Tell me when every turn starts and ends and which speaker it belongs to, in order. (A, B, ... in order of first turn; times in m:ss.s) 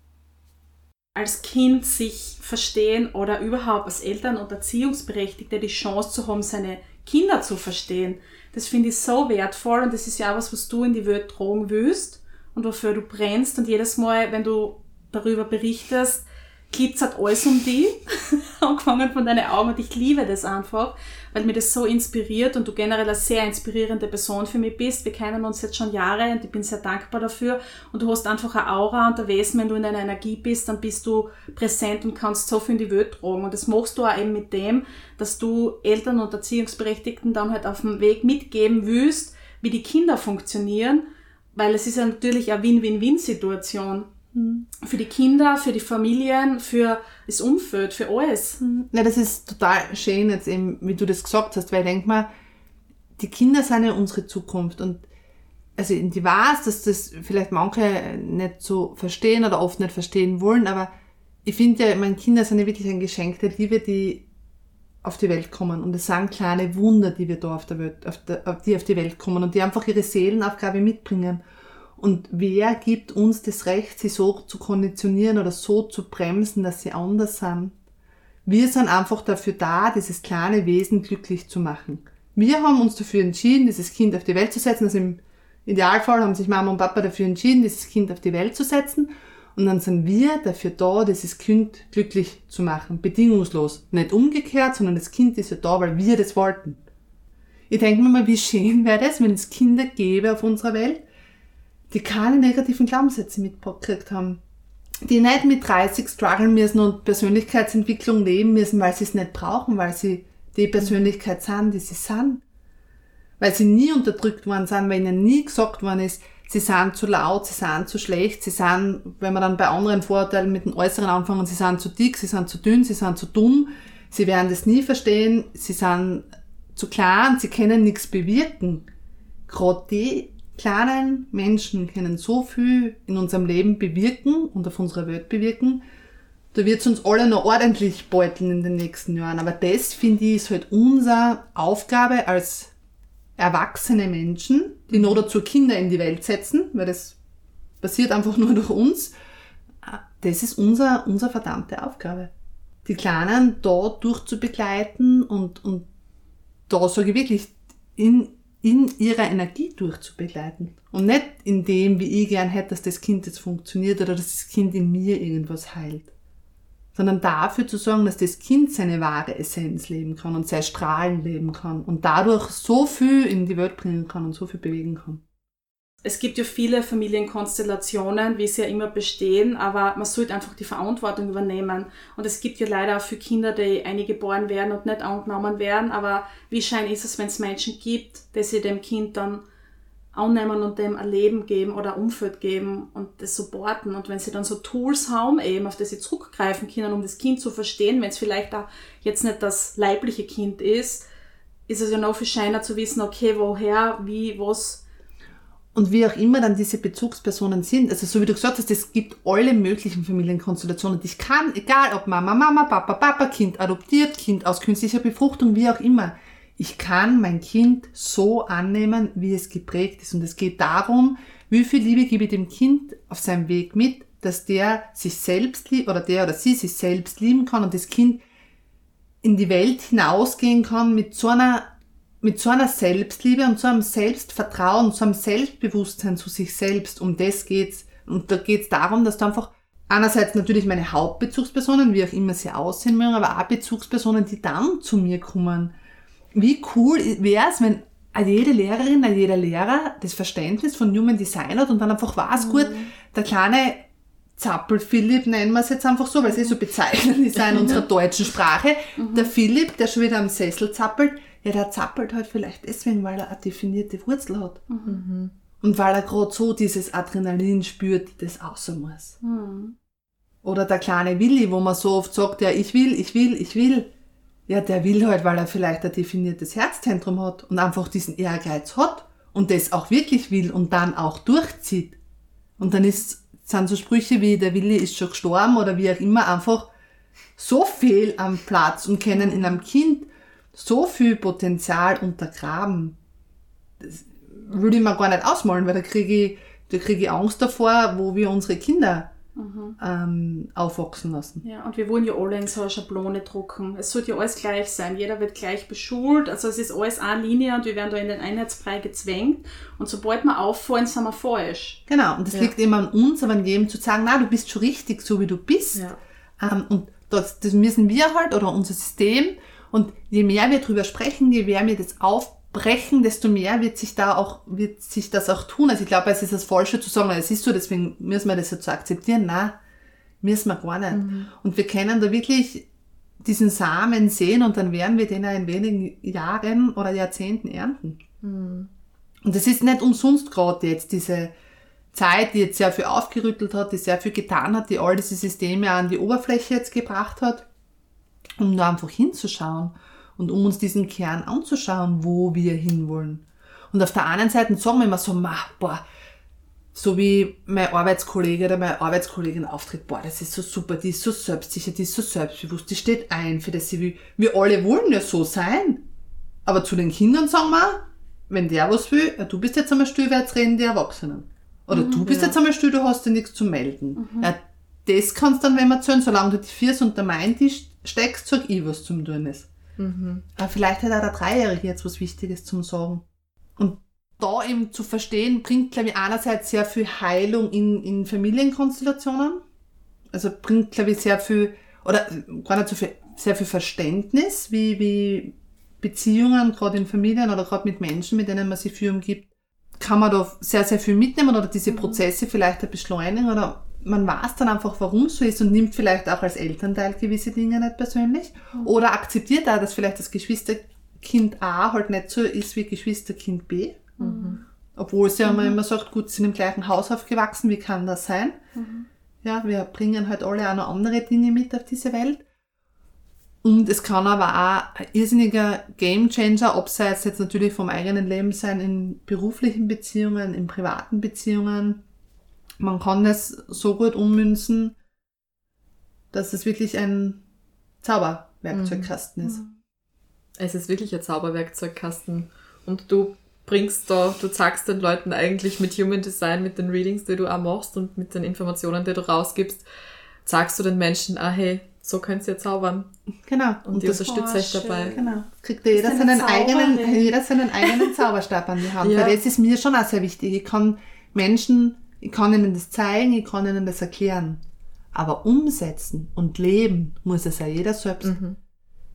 0:01.1-0:44.1 A
0:44.3-0:44.7 B
0:44.8-0:48.6 A
0:48.6-0:52.3 B
0:53.2-0:55.0 B
0:55.8-1:00.9 B
1:01.4-1:04.2 B
1:05.0-1:11.4 B
1:12.0-1:17.8 B
1:18.4-1:36.8 B
1:37.7-1:41.0 B
1:41.9-1:44.4 B
1:45.0-1:52.4 B
1:53.4-2:08.8 B
2:09.5-2:15.8 B
2:16.5-2:22.7 B
2:23.4-2:27.2 B
2:24.9-2:25.2 C
2:27.8-2:29.1 B
2:29.8-2:32.3 B
2:32.8-2:35.8 B
2:36.7-2:46.1 B
2:46.9-2:55.2 B
2:56.0-3:09.4 A
3:10.1-3:21.0 A
3:21.7-3:24.8 A
3:25.7-3:48.2 B
3:49.2-3:51.7 B
3:52.2-4:05.7 B
4:06.3-4:13.8 B
4:12.4-4:12.9 A
4:14.4-4:24.6 B
4:19.0-4:19.3 A
4:24.7-4:25.0 A
4:24.8-4:25.3 C
4:25.6-4:29.2 B
4:29.2-4:29.8 A
4:30.4-4:33.9 B
4:34.5-4:42.0 B
4:42.6-4:46.7 B
4:47.4-4:53.0 B
4:53.8-4:59.1 B
4:59.4-4:59.8 A
4:59.8-5:01.4 B
5:01.4-5:11.8 A
5:11.9-5:15.8 B
5:16.4-5:29.6 B
5:30.2-5:32.7 B
5:30.9-5:31.3 C
5:33.2-5:38.0 B
5:38.2-5:38.7 C
5:39.2-5:41.3 B
5:41.9-5:47.4 B
5:48.4-5:55.8 B
5:56.7-6:05.8 B
6:06.4-6:19.5 B
6:11.8-6:12.3 C
6:11.8-6:12.0 A
6:14.0-6:14.3 A
6:19.8-6:20.2 C
6:20.4-6:23.0 B
6:23.6-6:29.4 B
6:30.1-6:53.9 B
6:54.0-6:54.4 C
6:54.0-6:54.4 A
6:54.8-6:58.4 B
6:55.2-6:55.6 A
6:58.5-6:58.9 A
6:59.2-7:02.2 B
7:03.4-7:11.8 B
7:12.6-7:14.8 B
7:16.1-7:17.2 B
7:17.8-7:19.4 B
7:18.5-7:18.9 C
7:19.2-7:19.5 A
7:20.4-7:29.6 C
7:30.2-7:32.9 C
7:33.2-7:34.0 B
7:33.6-7:35.0 C
7:34.0-7:35.2 A
7:34.9-7:44.4 B
7:35.7-7:37.2 A
7:38.8-7:39.2 C
7:44.9-7:48.1 B
7:48.0-7:48.4 C